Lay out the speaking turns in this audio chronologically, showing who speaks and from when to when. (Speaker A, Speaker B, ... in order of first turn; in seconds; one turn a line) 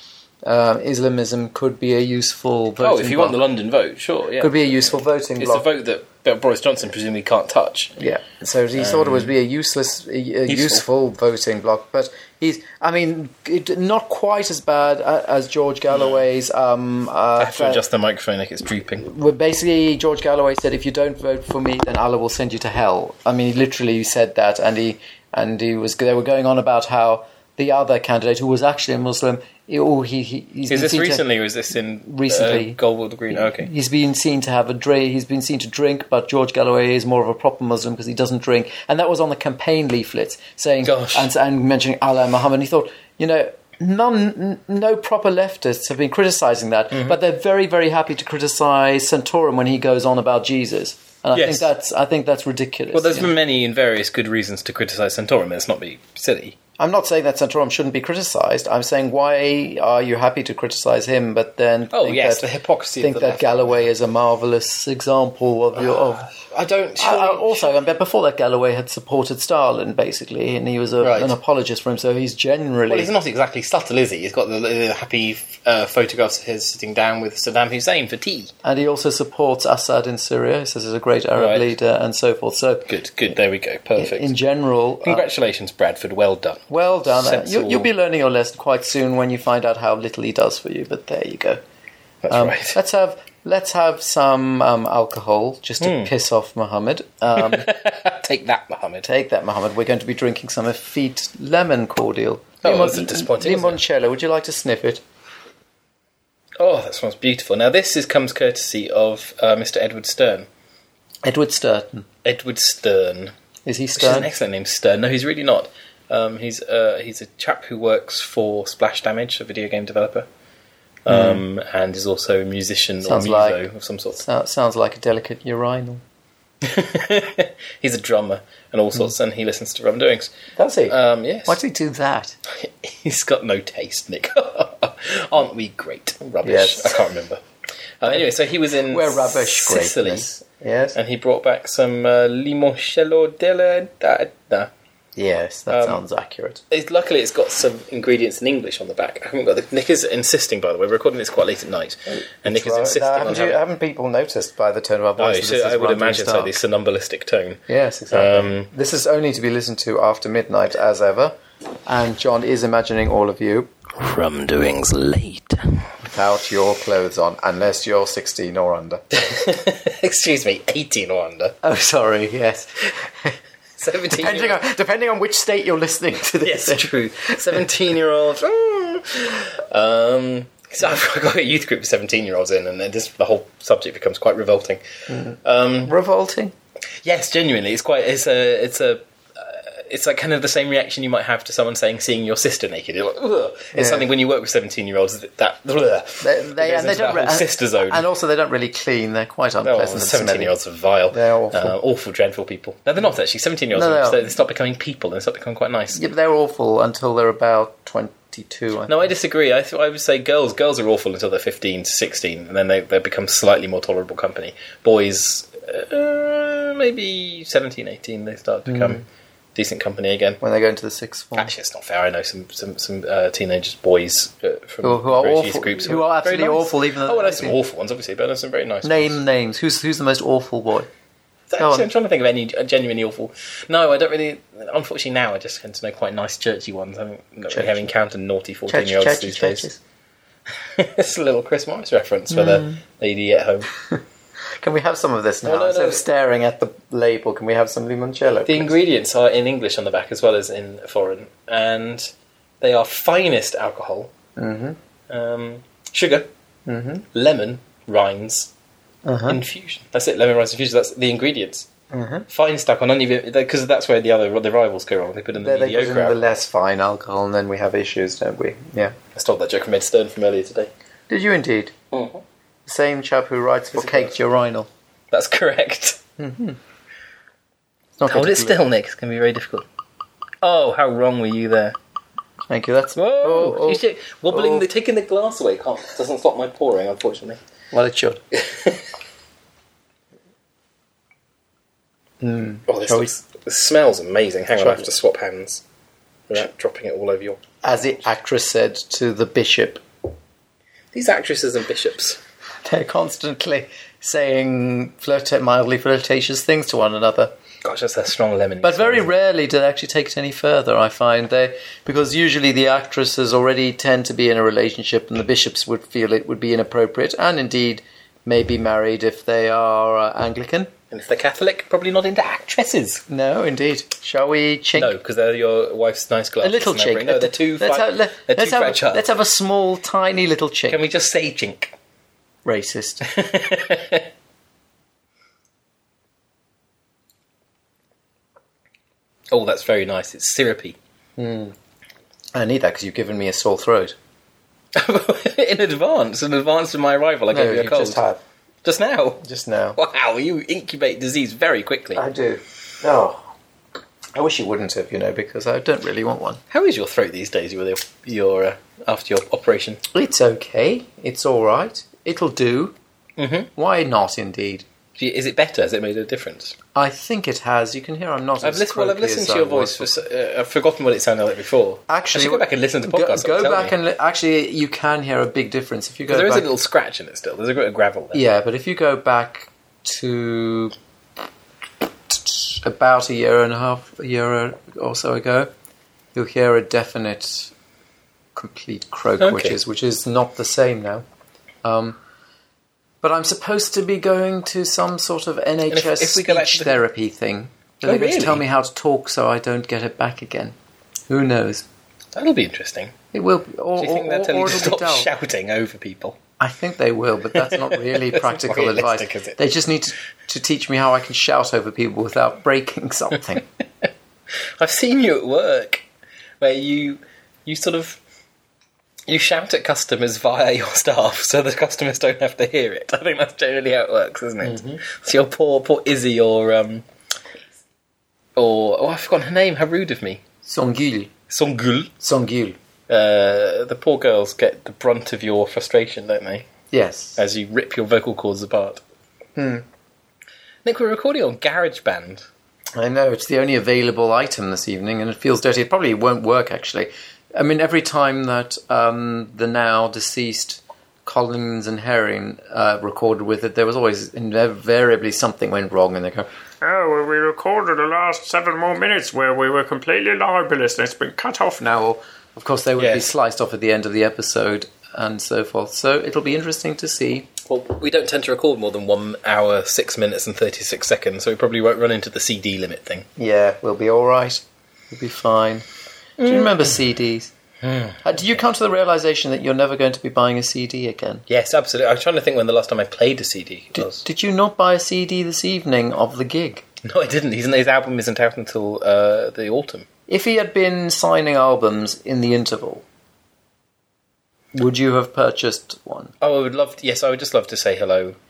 Speaker A: 0.4-3.4
Speaker B: 2.8-8.0
Speaker A: 4.4-5.7
Speaker A: 8.0-17.8
Speaker B: 8.8-9.3
Speaker B: 10.5-10.8
Speaker B: 15.9-16.2
Speaker B: 17.4-19.1
Speaker A: 19.0-31.2
Speaker B: 30.7-33.7
Speaker A: 32.0-32.8
Speaker A: 33.3-53.3
Speaker B: 40.8-41.3
Speaker B: 51.3-51.7
Speaker B: 52.9-56.6
Speaker A: 56.8-62.4
Speaker B: 61.9-63.8
Speaker A: 63.0-66.3
Speaker B: 65.8-67.7
Speaker A: 67.0-73.1
Speaker B: 71.0-71.4
Speaker B: 72.9-78.5
Speaker A: 78.6-82.9
Speaker B: 81.4-81.8
Speaker B: 82.9-84.3
Speaker A: 84.0-85.2
Speaker B: 85.0-87.9
Speaker A: 86.7-91.6
Speaker B: 92.2-92.8
Speaker A: 92.3-97.7
Speaker B: 95.8-96.1
Speaker B: 97.4-99.1
Speaker A: 99.0-105.0
Speaker B: 102.6-103.8
Speaker B: 106.6-110.5
Speaker A: 111.2-112.1
Speaker B: 112.2-113.3
Speaker A: 113.7-114.3
Speaker B: 114.0-120.3
Speaker B: 121.0-124.2
Speaker A: 121.1-121.4
Speaker A: 123.0-123.6
Speaker A: 124.2-126.0
Speaker B: 126.6-130.3
Speaker A: 130.6-132.4
Speaker B: 130.9-131.6
Speaker B: 132.5-137.4
Speaker A: 136.4-137.0
Speaker B: 138.0-140.4
Speaker A: 138.9-141.0
Speaker B: 140.9-144.7
Speaker A: 145.2-146.6
Speaker B: 145.7-146.0
Speaker B: 146.7-153.6
Speaker A: 152.2-156.6
Speaker B: 155.2-158.7
Speaker A: 157.7-161.3
Speaker A: 161.8-163.7
Speaker B: 163.9-165.9
Speaker A: 166.0-169.0
Speaker B: 169.1-171.6
Speaker A: 171.6-173.4
Speaker B: 173.8-174.6
Speaker A: 174.1-177.6
Speaker B: 176.4-184.8
Speaker A: 185.1-186.5
Speaker B: 185.4-185.9
Speaker B: 187.0-198.1
Speaker A: 193.7-194.1
Speaker A: 196.2-200.5
Speaker B: 199.6-206.0
Speaker A: 201.1-201.7
Speaker A: 203.7-204.3
Speaker A: 205.9-209.1
Speaker B: 208.9-219.0
Speaker A: 218.7-219.0
Speaker B: 219.6-220.4
Speaker A: 220.4-221.5
Speaker B: 221.3-229.2
Speaker A: 224.8-227.6
Speaker A: 228.8-230.9
Speaker B: 231.5-239.7
Speaker A: 231.6-231.9
Speaker A: 237.5-237.9
Speaker A: 238.7-239.8
Speaker B: 240.6-243.7
Speaker A: 242.3-242.8
Speaker A: 244.6-248.8
Speaker B: 245.4-246.0
Speaker B: 248.5-254.1
Speaker A: 254.3-254.8
Speaker B: 255.1-256.3
Speaker A: 256.7-257.0
Speaker B: 257.1-258.5
Speaker A: 259.1-259.4
Speaker B: 259.3-261.7
Speaker A: 261.9-262.2
Speaker B: 262.3-266.2
Speaker A: 265.4-268.9
Speaker B: 269.1-270.7
Speaker A: 271.1-271.7
Speaker B: 271.9-272.2
Speaker A: 272.7-274.7
Speaker B: 273.8-274.1
Speaker B: 275.1-276.0
Speaker A: 276.2-276.6
Speaker A: 278.0-278.6
Speaker B: 278.1-279.7
Speaker B: 280.4-281.8
Speaker A: 282.5-284.6
Speaker B: 282.9-287.4
Speaker A: 287.7-288.2
Speaker B: 288.3-288.8
Speaker A: 292.2-293.1
Speaker B: 292.7-295.6
Speaker A: 294.6-294.9
Speaker B: 296.3-297.4
Speaker A: 297.6-299.8
Speaker B: 300.9-302.2
Speaker A: 302.6-307.3
Speaker B: 307.6-309.1
Speaker A: 308.6-320.7
Speaker B: 320.9-323.0
Speaker A: 323.1-324.9
Speaker B: 324.8-329.1
Speaker A: 326.4-330.8
Speaker B: 330.7-331.7
Speaker A: 332.4-333.1
Speaker B: 333.1-334.1
Speaker B: 339.3-340.8
Speaker A: 341.2-341.6
Speaker A: 342.3-343.9
Speaker B: 344.7-348.0
Speaker A: 347.3-348.2
Speaker B: 348.6-349.2
Speaker A: 349.2-349.8
Speaker B: 349.8-352.0
Speaker A: 351.9-353.2
Speaker A: 354.1-356.4
Speaker B: 356.5-359.8
Speaker A: 359.9-362.7
Speaker B: 363.2-363.5
Speaker A: 363.6-364.6
Speaker B: 365.0-366.6
Speaker A: 366.7-369.9
Speaker B: 368.4-373.7
Speaker A: 371.9-376.5
Speaker B: 376.1-378.2
Speaker A: 378.1-380.7
Speaker A: 382.1-385.5
Speaker A: 386.1-387.5
Speaker A: 388.3-391.0
Speaker B: 389.2-389.6
Speaker A: 391.6-392.0
Speaker A: 393.0-400.6
Speaker B: 395.7-396.8
Speaker B: 397.8-398.4
Speaker A: 401.1-401.6
Speaker B: 402.1-402.9
Speaker A: 403.1-405.1
Speaker B: 403.8-406.2
Speaker A: 406.4-413.4
Speaker B: 407.4-409.4
Speaker B: 414.6-415.8
Speaker B: 416.4-418.0
Speaker B: 419.1-426.8
Speaker A: 424.4-424.8
Speaker B: 428.4-430.2
Speaker A: 430.4-431.1
Speaker B: 431.3-431.9
Speaker A: 432.0-432.6
Speaker B: 432.9-436.5
Speaker A: 436.7-437.2
Speaker B: 437.2-438.8
Speaker A: 439.4-439.6
Speaker B: 440.6-442.3
Speaker A: 442.8-456.3
Speaker C: 456.6-462.0
Speaker A: 462.4-467.3
Speaker B: 462.8-463.1
Speaker B: 467.4-473.1
Speaker A: 473.2-475.6
Speaker B: 476.2-476.7
Speaker A: 476.2-477.3
Speaker B: 477.6-478.0
Speaker A: 478.0-481.2
Speaker B: 481.3-484.0
Speaker A: 483.8-486.6
Speaker B: 486.8-489.9
Speaker A: 490.1-492.8
Speaker A: 494.6-496.1
Speaker B: 496.2-498.2